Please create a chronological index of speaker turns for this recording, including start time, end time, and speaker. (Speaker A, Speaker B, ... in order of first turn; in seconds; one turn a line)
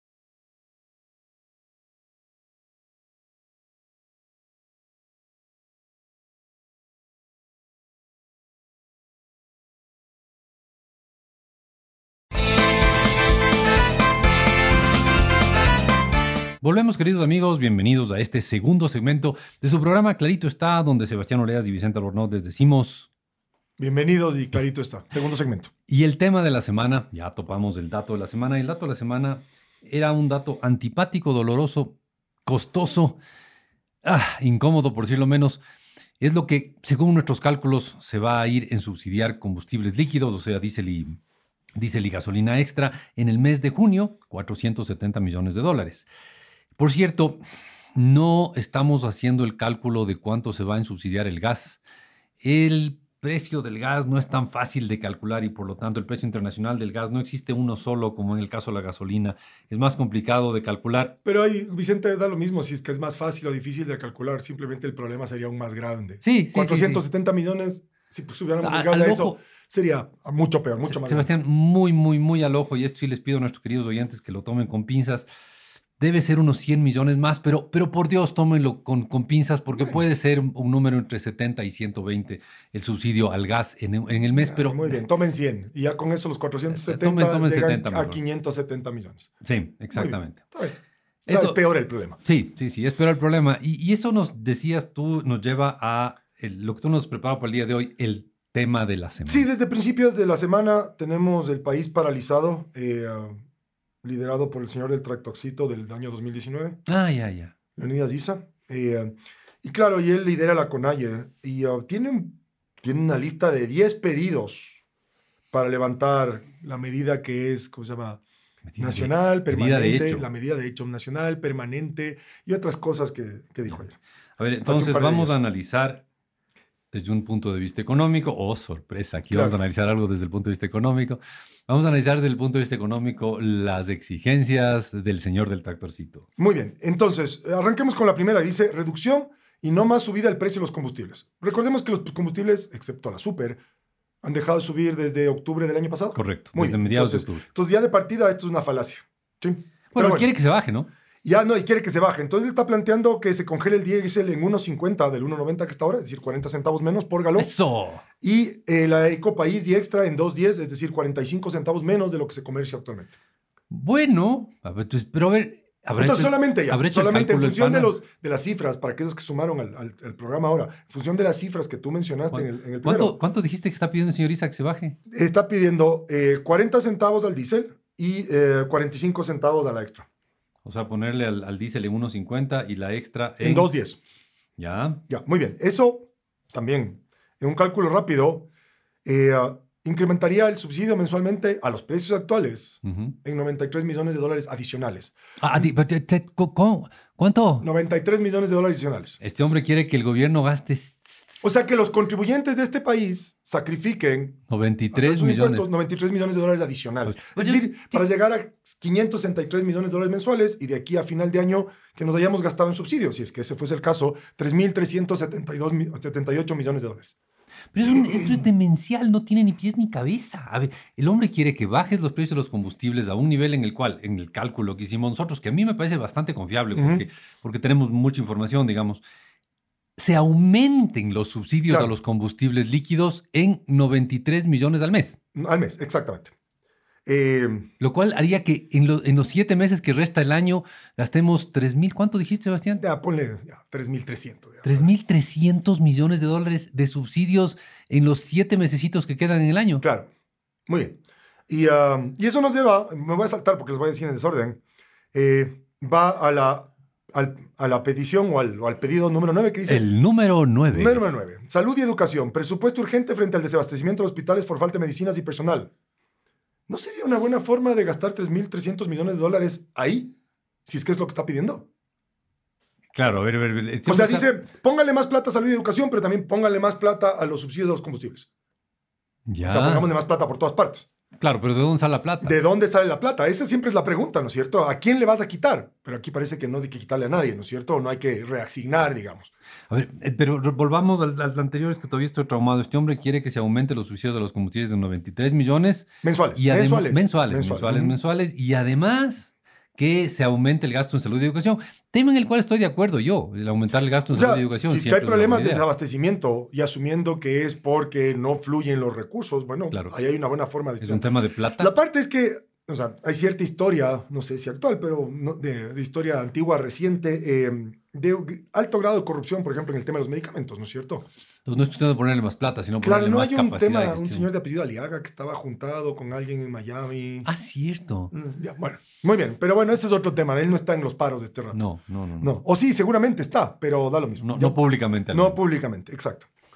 Speaker A: 16.6-23.1
Speaker B: 23.8-25.7
Speaker A: 25.9-33.2
Speaker A: 34.0-35.6
Speaker A: 36.2-41.2
Speaker A: 41.7-46.1
Speaker A: 46.8-47.4
Speaker A: 48.0-51.8
Speaker A: 52.4-61.1
Speaker B: 61.2-71.3
Speaker A: 66.2-67.0
Speaker A: 68.6-69.4
Speaker A: 70.8-75.3
Speaker A: 76.0-85.0
Speaker B: 84.3-89.3
Speaker A: 86.7-88.2
Speaker A: 89.4-90.4
Speaker B: 89.9-92.2
Speaker A: 91.3-91.6
Speaker A: 92.2-99.5
Speaker B: 99.2-103.4
Speaker B: 104.0-106.8
Speaker A: 106.9-107.5
Speaker B: 107.8-114.8
Speaker B: 115.5-118.2
Speaker A: 118.7-120.2
Speaker B: 118.8-124.0
Speaker A: 124.4-126.0
Speaker B: 124.6-125.4
Speaker A: 126.9-136.3
Speaker B: 129.3-129.6
Speaker B: 136.4-143.6
Speaker B: 144.2-150.3
Speaker A: 146.2-147.4
Speaker A: 149.9-150.9
Speaker B: 151.2-157.5
Speaker A: 157.3-158.0
Speaker B: 158.2-163.1
Speaker A: 163.7-167.9
Speaker B: 166.0-173.1
Speaker A: 172.3-175.0
Speaker B: 175.1-180.1
Speaker A: 180.6-183.7
Speaker B: 183.4-184.0
Speaker A: 184.6-185.0
Speaker B: 185.1-188.5
Speaker B: 189.0-195.7
Speaker A: 192.8-193.1
Speaker A: 195.4-197.7
Speaker B: 197.6-199.2
Speaker A: 199.2-201.4
Speaker B: 201.4-204.4
Speaker A: 204.5-205.7
Speaker B: 204.9-217.1
Speaker A: 207.1-208.0
Speaker A: 217.7-229.0
Speaker B: 217.8-218.4
Speaker B: 226.7-227.0
Speaker A: 230.0-235.2
Speaker B: 235.3-236.3
Speaker B: 237.1-237.7
Speaker A: 237.8-242.8
Speaker B: 242.8-244.9
Speaker A: 244.6-249.8
Speaker B: 249.8-250.1
Speaker B: 250.7-254.6
Speaker B: 255.1-259.8
Speaker A: 259.7-261.0
Speaker B: 260.7-265.7
Speaker B: 266.7-270.1
Speaker B: 270.7-271.7
Speaker A: 272.9-274.3
Speaker B: 273.9-278.3
Speaker A: 279.3-279.9
Speaker B: 279.4-280.9
Speaker A: 281.2-282.4
Speaker B: 282.2-289.3
Speaker A: 289.7-305.6
Speaker B: 296.0-297.9
Speaker B: 304.1-311.1
Speaker A: 310.8-311.7
Speaker B: 311.6-321.1
Speaker A: 321.4-324.3
Speaker B: 322.8-327.3
Speaker A: 327.2-328.1
Speaker B: 328.1-331.6
Speaker A: 331.5-332.3
Speaker B: 332.2-334.6
Speaker A: 334.2-335.4
Speaker B: 335.1-336.3